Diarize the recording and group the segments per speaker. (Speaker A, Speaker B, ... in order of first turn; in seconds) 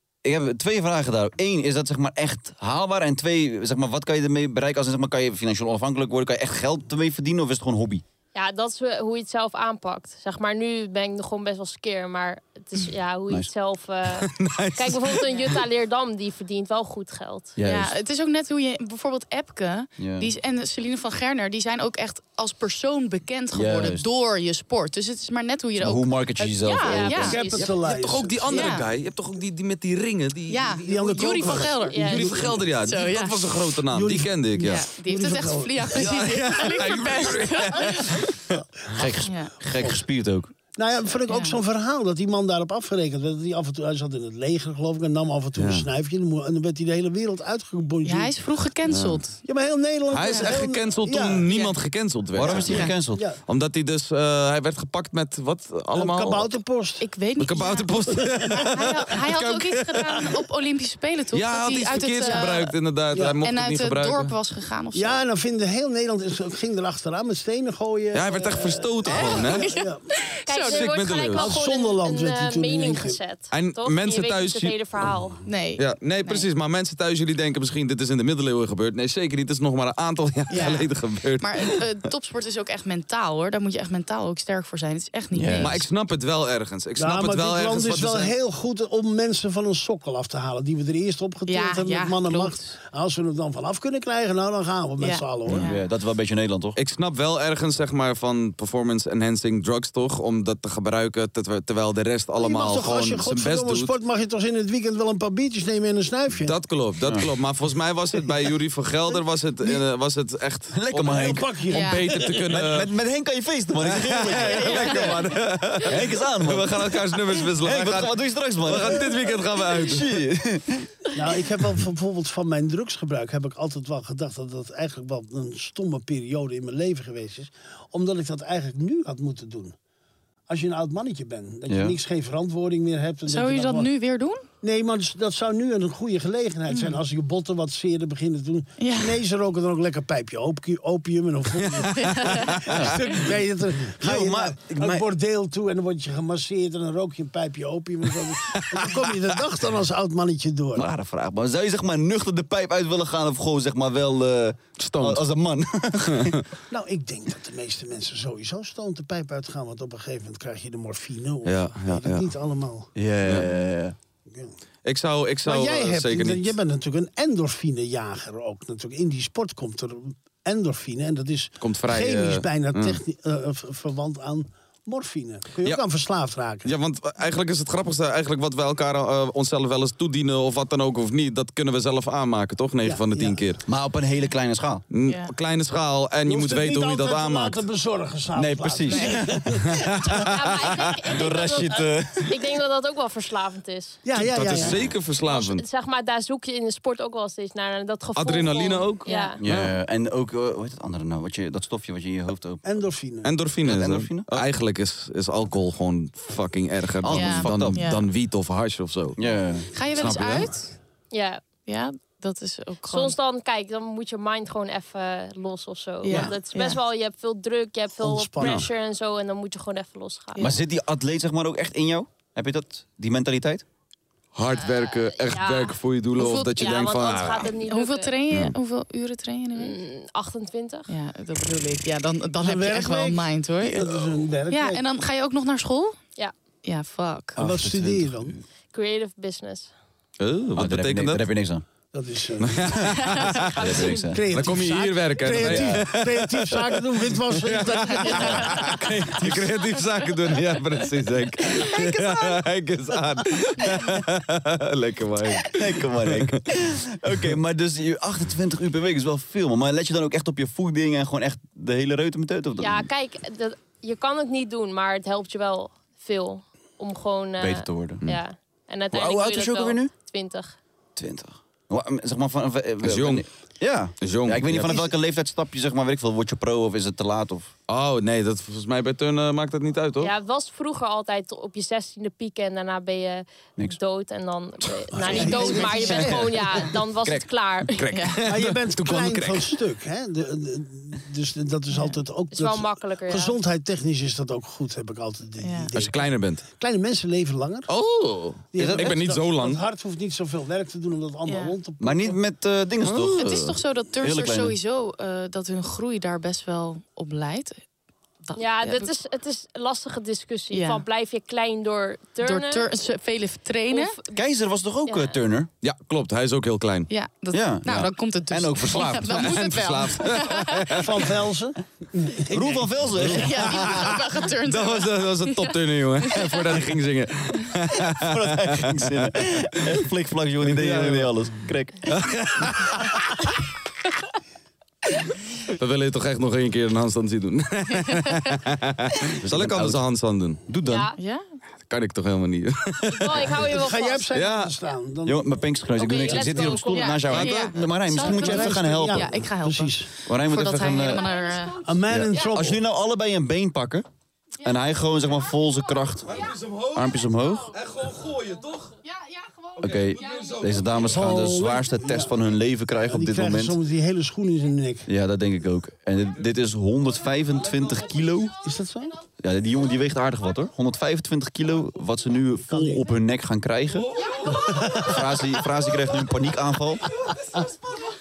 Speaker A: 0.2-8.0, 17.6-17.9, 20.0-20.3, 23.5-24.1, 25.8-27.4, 38.9-40.5, 52.3-53.2, 85.3-85.8, 95.5-96.8, 110.7-111.5, 112.5-115.3, 115.8-121.1, 131.7-132.0, 142.7-142.9, 144.0-145.1, 150.7-156.4, 162.9-163.9, 183.7-184.8, 188.3-190.2, 191.0-192.5, 199.4-202.6, 203.6-204.4, 207.0-207.8, 209.2-209.7, 218.4-218.7, 220.4-223.7, 237.3-238.3, 240.6-241.6, 243.5-244.3, 245.4-245.8, 255.4-262.9, 267.4-268.0, 268.9-269.9, 270.9-277.5, 284.9-287.7, 298.5-299.0, 301.8-304.6, 314.1-315.5, 317.3-319.3, 322.3-323.9, 327.8-332.1, 339.2-339.8, 340.5-340.9, 345.0-349.2, 350.1-351.1, 351.9-353.9, 354.4-357.6, 359.6-363.6, 364.9-368.4, 369.2-376.9
Speaker B: 8.3-17.5, 26.8-28.0, 31.9-32.3, 70.5-75.5, 190.2-194.0, 195.2-199.4, 211.1-211.4, 212.9-220.5, 225.2-228.2, 229.5-230.9, 238.7-239.7, 243.1-244.2, 262.6-270.6, 280.0-287.9, 292.3-293.4, 308.4-312.7, 313.7-314.2, 314.9-315.2, 340.6-341.0, 342.9-344.1, 345.8-347.0
Speaker C: 14.2-15.6, 27.6-34.9, 35.9-38.4, 45.5-45.9, 48.9-49.2, 50.1-52.9, 53.5-56.5, 57.4-60.3, 61.3-64.3, 68.1-69.7, 70.6-71.5, 73.5-74.8, 75.8-81.8, 85.6-88.3, 96.8-103.9, 106.4-112.9, 113.8-120.2, 141.5-142.8, 148.5-149.2, 154.8-155.2, 161.4-162.3, 164.8-166.5, 171.6-173.0, 176.6-183.6, 184.9-187.6, 189.6-191.0, 194.1-195.6, 198.2-199.7, 203.2-209.2, 209.9-210.5, 224.3-227.5, 240.2-241.2, 242.4-243.6, 244.3-256.4, 272.8-273.2, 274.0-274.9, 277.7-280.1, 287.7-289.6, 295.7-296.4, 297.7-299.6, 302.8-303.5, 315.6-316.9, 317.6-317.9, 318.6-321.1, 323.0-329.0, 330.4-331.1, 331.9-333.2, 335.5-340.4, 341.7-343.5, 344.1-344.5, 347.1-347.6, 356.1-356.8, 357.5-358.7, 359.6-360.8
Speaker D: 17.6-27.4, 28.5-28.9, 30.5-33.6, 34.6-38.2, 39.2-39.5, 41.3-41.6, 48.0-49.4, 50.2-50.5, 51.5-51.7, 52.5-52.9, 57.0-62.7, 63.4-65.2, 69.0-70.9, 75.4-76.5, 80.5-85.8, 91.5-92.7, 95.0-95.8, 111.7-112.1, 114.3-115.6, 133.3-134.5, 136.7-137.0, 138.8-139.2, 141.9-142.6, 185.0-185.3, 188.9-189.2, 199.1-199.3, 207.1-208.1, 209.7-210.7, 211.6-213.1, 216.0-216.8, 226.2-226.7, 227.6-229.8, 230.9-236.0, 236.6-237.4, 287.9-288.3, 295.4-295.7, 301.2-301.6, 303.2-307.6, 308.3-308.9, 310.5-310.8, 312.2-314.0, 316.9-320.8, 323.0-326.4, 337.8-338.3, 341.0-341.3, 346.7-351.7, 358.8-360.6
Speaker E: 27.2-28.7, 30.7-32.7, 33.9-36.1, 38.5-39.0, 39.7-40.0, 40.7-48.3, 49.4-51.5, 53.1-53.4, 55.9-57.1, 58.1-58.7, 63.1-63.4, 64.9-70.0, 71.3-73.2, 87.0-95.7, 102.4-106.5, 111.0-112.6, 121.1-129.7, 130.5-133.9, 134.6-150.9, 156.7-162.9, 165.4-176.7, 182.8-183.4, 186.2-190.2, 194.0-194.9, 202.6-203.3, 218.0-218.7, 232.4-234.8, 237.4-238.4, 241.9-242.9, 243.8-249.5, 251.6-252.0, 284.9-286.6, 288.2-297.7, 298.5-302.2, 320.8-322.6, 343.5-345.3, 347.9-349.9, 351.5-352.6, 360.8-362.2, 362.8-364.9, 368.4-369.0, 372.5-372.8, 374.2-374.9